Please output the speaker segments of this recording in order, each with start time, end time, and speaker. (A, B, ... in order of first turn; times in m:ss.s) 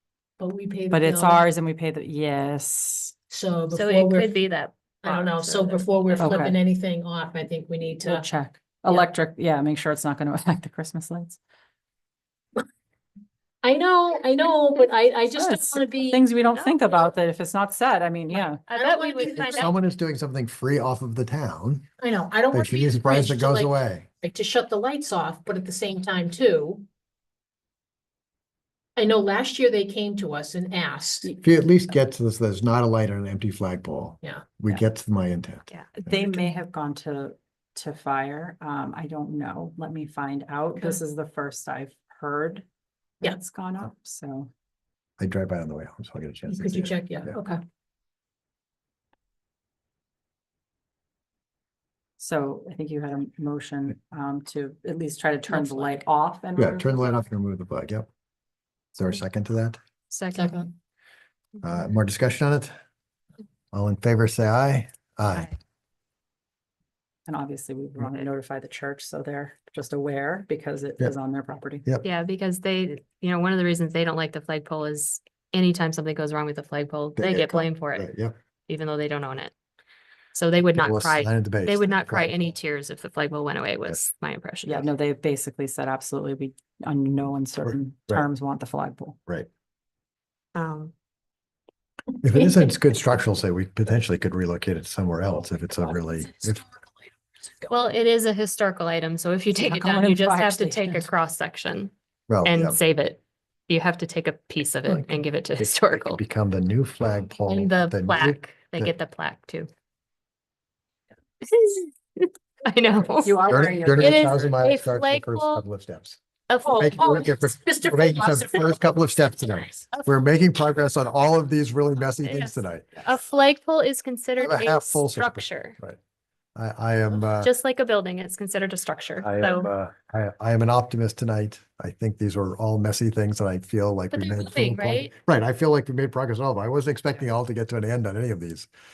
0:00.4-0:01.5 A
0:00.9-0:03.2 B
0:03.3-0:04.3 A
0:03.7-0:06.5 C
0:05.0-0:08.2 A
0:06.2-0:06.6 B
0:08.0-0:11.4 B
0:13.6-0:16.2 A
0:15.3-0:18.6 B
0:18.7-0:19.7 C
0:18.7-0:19.7 A
0:19.4-0:21.9 D
0:22.0-0:26.8 A
0:22.5-0:24.0 D
0:29.0-0:31.3 A
0:31.4-0:35.7 D
0:35.9-0:42.6 B
0:43.2-0:44.5 B
0:45.2-0:47.4 D
0:46.5-0:47.6 A
0:52.2-0:57.1 B
0:55.5-0:55.9 A
0:56.6-0:58.1 D
0:58.9-0:59.8 D
1:00.1-1:00.5 C
1:00.3-1:00.7 A
1:01.6-1:02.7 D
1:03.7-1:05.5 D
1:07.3-1:11.8 B
1:12.0-1:18.1 C
1:17.2-1:18.3 D
1:18.7-1:19.5 C
1:20.3-1:24.9 C
1:20.8-1:22.6 D
1:24.6-1:29.2 B
1:27.6-1:28.2 D
1:30.5-1:30.9 C
1:32.2-1:36.7 D
1:37.7-1:41.9 C
1:39.6-1:41.1 B
1:42.3-1:42.8 D
1:42.4-1:46.2 C
1:44.8-1:48.9 D
1:47.5-1:49.7 C
1:51.4-1:53.4 C
1:53.2-1:54.6 B
1:53.5-1:56.2 D
1:54.0-1:55.6 C
1:56.5-1:57.3 C
1:56.6-1:58.7 A
1:56.7-2:03.0 D
2:02.2-2:05.8 C
2:04.4-2:06.0 D
2:06.6-2:07.5 D
2:07.4-2:09.7 C
2:09.2-2:18.7 D
2:14.1-2:15.1 C